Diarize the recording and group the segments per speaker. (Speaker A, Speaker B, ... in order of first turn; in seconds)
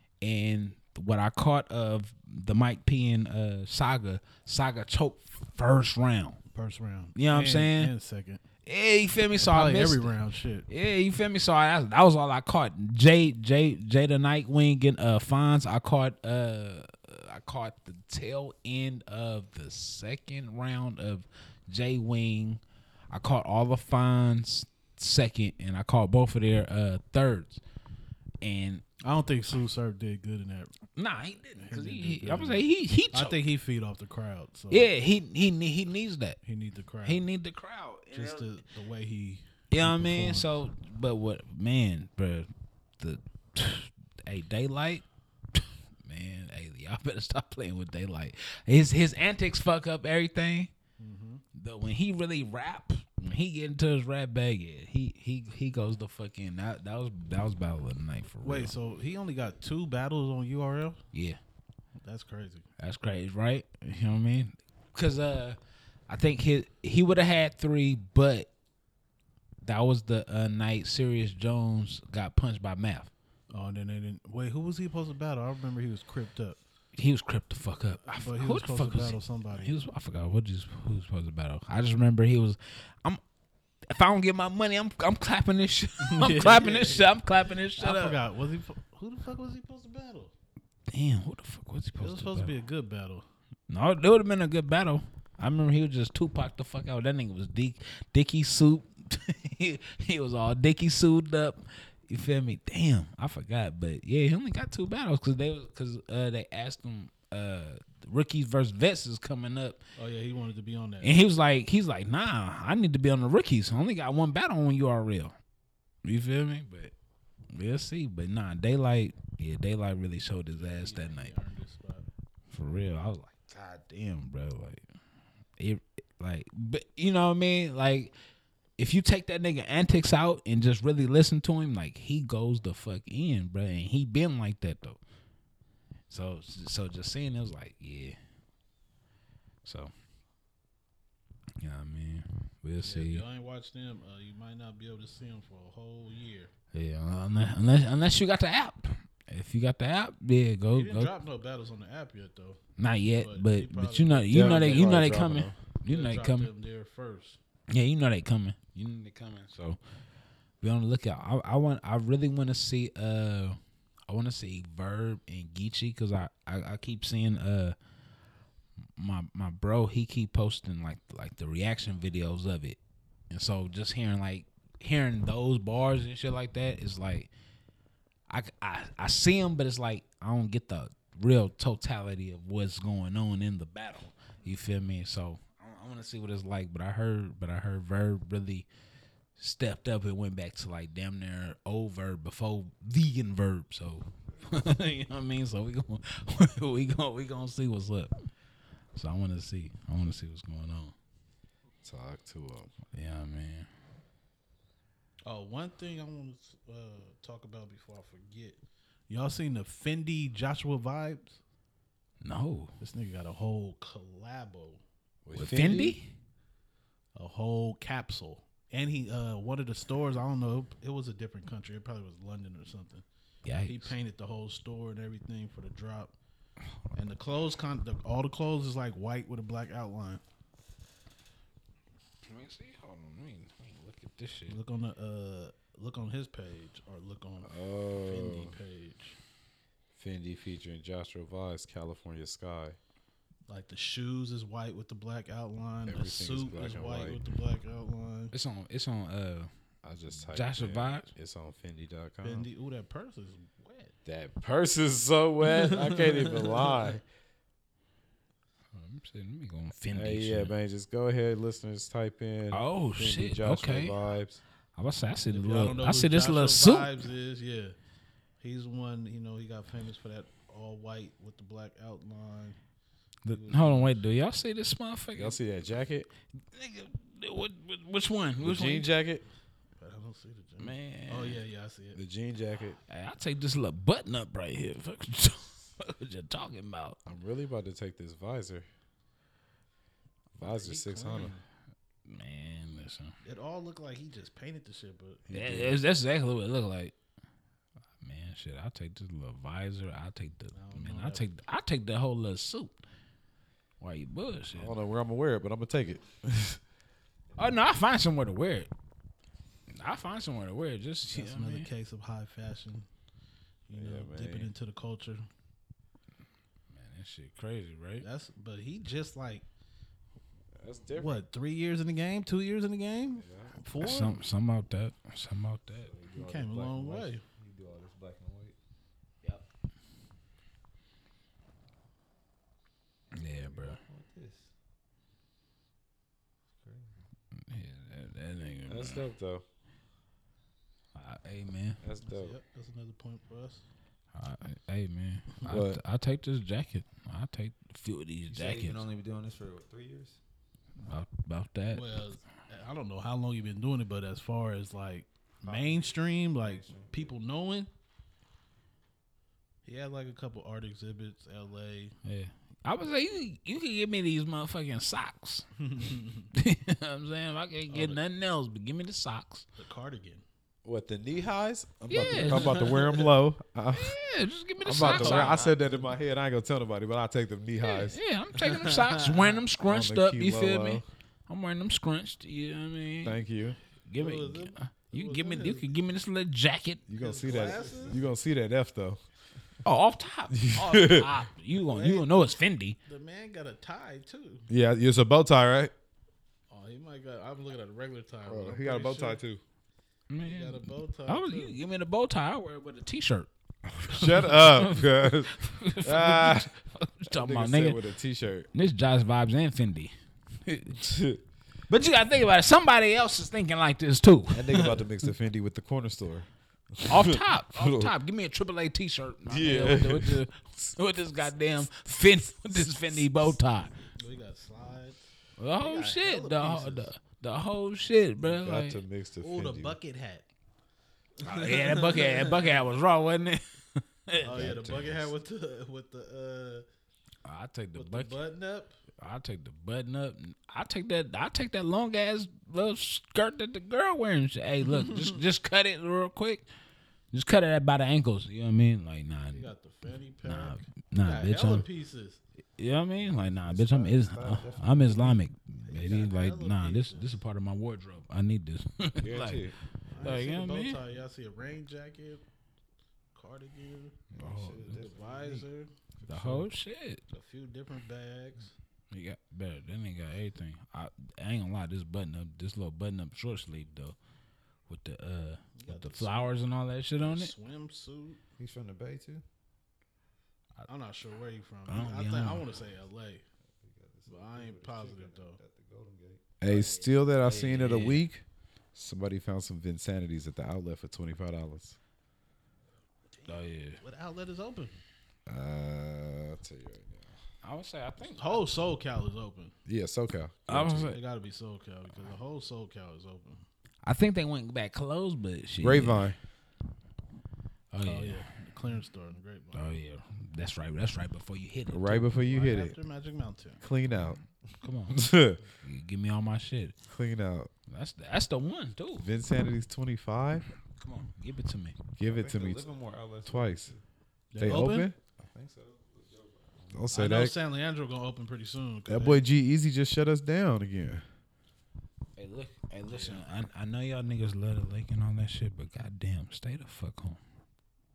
Speaker A: 0.2-6.4, 7.2-7.9, 8.7-10.1, 10.7-27.6, 28.4-28.8, 30.9-33.4, 34.7-36.4, 37.0-38.5, 39.7-42.5, 43.0-50.7, 51.5-58.7, 61.1-61.4, 62.8-68.5, 69.6-73.1, 77.0-83.2, 83.9-88.2, 90.9-92.5, 93.7-109.8, 111.0-115.3, 116.0-116.9, 117.5-121.3, 122.5-124.8, 125.6-128.1, 128.8-135.0, 136.1-138.2, 139.6-139.9, 141.6-143.2, 146.7-151.1, 152.8-156.5, 157.7-159.8, 160.6-167.7, 169.0-172.8, 173.3-177.3, 178.3-188.7, 189.4-198.1, 198.9-200.9, 202.9-203.7, 212.2-212.7, 215.3-216.1, 223.4-223.9, 232.3-234.6, 248.3-249.5, 250.3-251.1, 258.7-260.5, 262.5-263.9, 264.8-267.0, 273.2-275.4, 276.5-278.9, 280.6-281.4, 282.9-287.0, 292.1-293.1, 295.3-296.9, 298.0-302.8, 303.8-304.7, 307.4-308.7, 309.7-311.7, 316.7-318.0, 323.8-325.9, 333.1-333.8, 337.5-339.1, 340.9-341.8, 344.1-348.8, 350.8-351.9, 362.0-365.4, 366.3-369.4, 371.9-372.7, 373.7-375.5, 377.6-383.2, 383.9-386.8, 389.6-392.8, 400.1-403.3, 403.9-407.8, 408.5-409.9, 410.4-410.9, 411.7-414.8, 416.9-423.7, 425.4-428.8, 431.2-434.6, 437.2-438.2, 439.0-446.4, 447.1-449.5, 450.2-451.6, 452.6-459.4, 460.0-460.8, 464.1-464.8, 466.1-467.0, 468.9-473.9, 474.7-477.3, 481.7-482.4, 486.4-488.1, 493.2-493.8, 497.4-498.6, 500.5-501.0, 503.8-506.0, 507.7-508.2, 509.5-512.1, 514.6-515.0, 515.6-516.7, 517.7-519.0, 520.8-521.8, 532.2-537.2
Speaker B: 6.5-8.4, 9.4-10.7, 29.0-30.7, 31.6-34.9, 36.4-37.2, 38.1-40.5, 51.0-51.4, 58.4-61.0, 62.0-62.6, 73.5-76.6, 78.0-79.7, 86.0-87.1, 87.8-90.3, 92.0-93.2, 110.0-111.2, 120.5-122.0, 142.8-146.5, 150.7-155.1, 155.8-157.4, 205.2-211.4, 212.8-214.8, 217.1-223.0, 223.6-226.1, 226.9-230.2, 234.5-239.2, 243.5-248.3, 252.2-253.9, 255.5-256.9, 265.3-267.8, 268.4-272.6, 273.3-274.0, 279.8-282.0, 290.4-291.4, 293.2-295.2, 300.5-301.3, 311.1-312.9, 313.7-315.2, 318.0-319.4, 320.9-324.2, 326.1-327.2, 342.1-343.6, 351.7-357.7, 359.6-361.9, 365.6-366.3, 367.7-368.0, 369.6-370.2, 372.0-373.1, 374.8-375.9, 378.4-379.4, 384.0-385.8, 387.0-388.0, 391.7-394.4, 396.5-399.2, 400.2-401.6, 424.0-425.1, 425.6-426.9, 429.2-430.2, 431.2-432.6, 434.2-436.6, 437.8-438.7, 449.3-452.2, 455.6-457.2, 459.9-462.2, 463.1-465.7, 467.1-468.5, 475.5-476.3, 477.0-478.2, 480.7-483.2, 484.1-485.4, 493.1-494.7, 498.2-499.5, 500.9-503.4, 507.8-509.8, 512.1-513.6, 524.3-524.9, 526.9-529.2
Speaker C: 154.3-155.6, 201.8-202.7, 215.2-216.0, 237.4-238.5, 239.9-242.8, 245.9-247.2, 249.8-252.5, 254.0-257.0, 259.9-264.4, 275.1-276.1, 278.4-279.2, 281.9-282.8, 287.1-288.6, 290.4-291.4, 295.3-295.8, 304.5-306.6, 313.7-314.5, 320.6-321.2, 323.2-323.6, 338.7-339.4, 341.8-342.4, 345.4-345.8, 370.6-373.9, 374.6-378.0, 379.6-380.8, 383.0-383.6, 386.9-389.0, 390.3-391.1, 394.5-395.7, 398.2-399.4, 403.8-406.5, 407.1-408.5, 410.8-411.2, 414.3-417.9, 419.2-420.7, 428.2-429.8, 434.2-435.1, 459.0-459.6, 464.1-465.4, 466.0-466.4, 486.4-488.2, 488.7-491.8, 495.3-497.1, 499.6-500.9, 505.6-506.2, 511.7-512.8, 513.6-514.2, 514.9-515.4, 516.9-517.5, 519.0-520.5, 522.0-522.7, 523.2-523.7, 524.4-525.0, 526.7-527.4, 528.9-531.0
Speaker D: 325.8-328.6, 333.4-334.5, 336.6-337.0, 348.3-350.2, 355.4-357.1, 387.2-388.1, 453.1-455.2, 464.2-465.0, 478.4-479.2, 483.6-486.3, 522.0-523.8, 525.3-526.9